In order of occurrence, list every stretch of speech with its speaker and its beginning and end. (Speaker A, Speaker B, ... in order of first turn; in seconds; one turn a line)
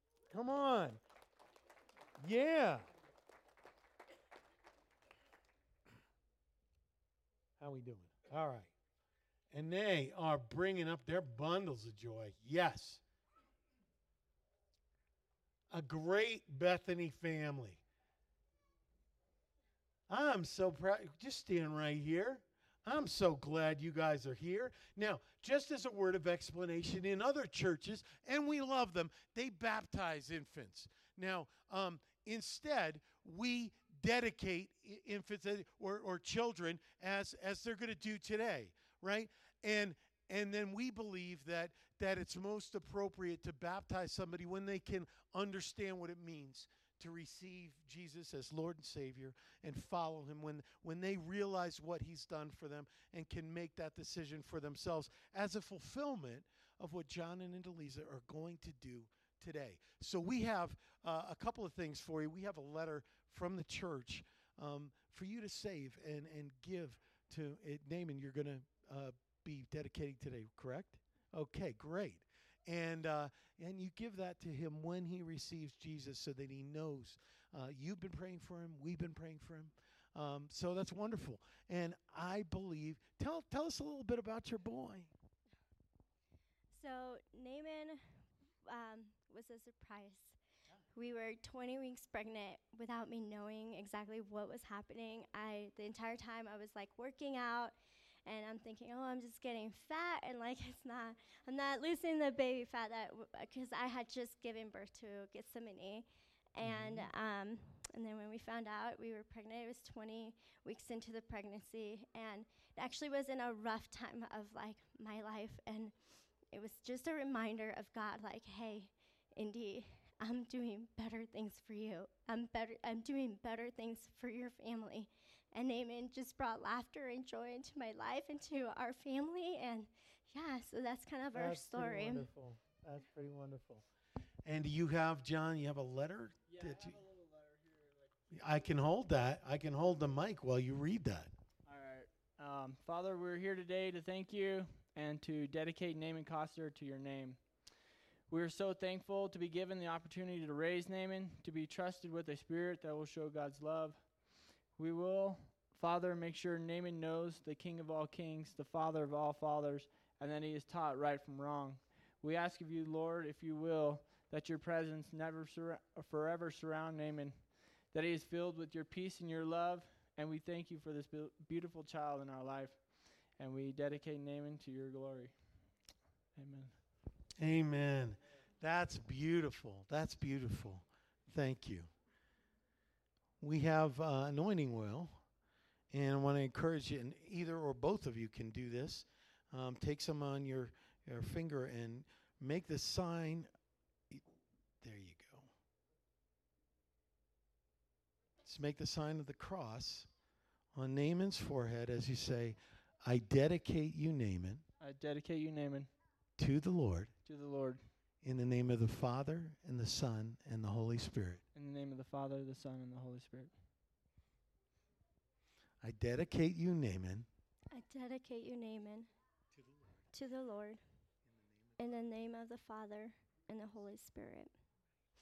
Speaker A: 0.3-1.0
Speaker A: 2.2-2.8
Speaker A: 7.6-8.7
Speaker A: 9.5-13.0
Speaker A: 15.7-17.8
Speaker A: 20.1-85.1
Speaker B: 86.7-90.4
Speaker B: 90.9-115.9
Speaker A: 106.6-107.1
Speaker B: 116.5-132.3
Speaker A: 131.3-133.8
Speaker A: 134.4-137.0
Speaker C: 136.5-138.1
Speaker A: 138.3-141.3
Speaker C: 141.7-147.7
Speaker C: 148.3-175.6
Speaker C: 176.3-176.8
Speaker A: 177.4-181.9
Speaker A: 183.4-185.2
Speaker A: 185.9-193.5
Speaker A: 194.8-195.5
Speaker A: 198.4-200.1
Speaker A: 200.7-204.6
Speaker C: 204.8-205.9
Speaker A: 206.4-207.1
Speaker C: 207.2-207.8
Speaker A: 208.2-211.4
Speaker C: 211.5-213.6
Speaker A: 215.8-217.3
Speaker B: 217.7-219.1
Speaker B: 220.1-220.8
Speaker B: 221.8-224.5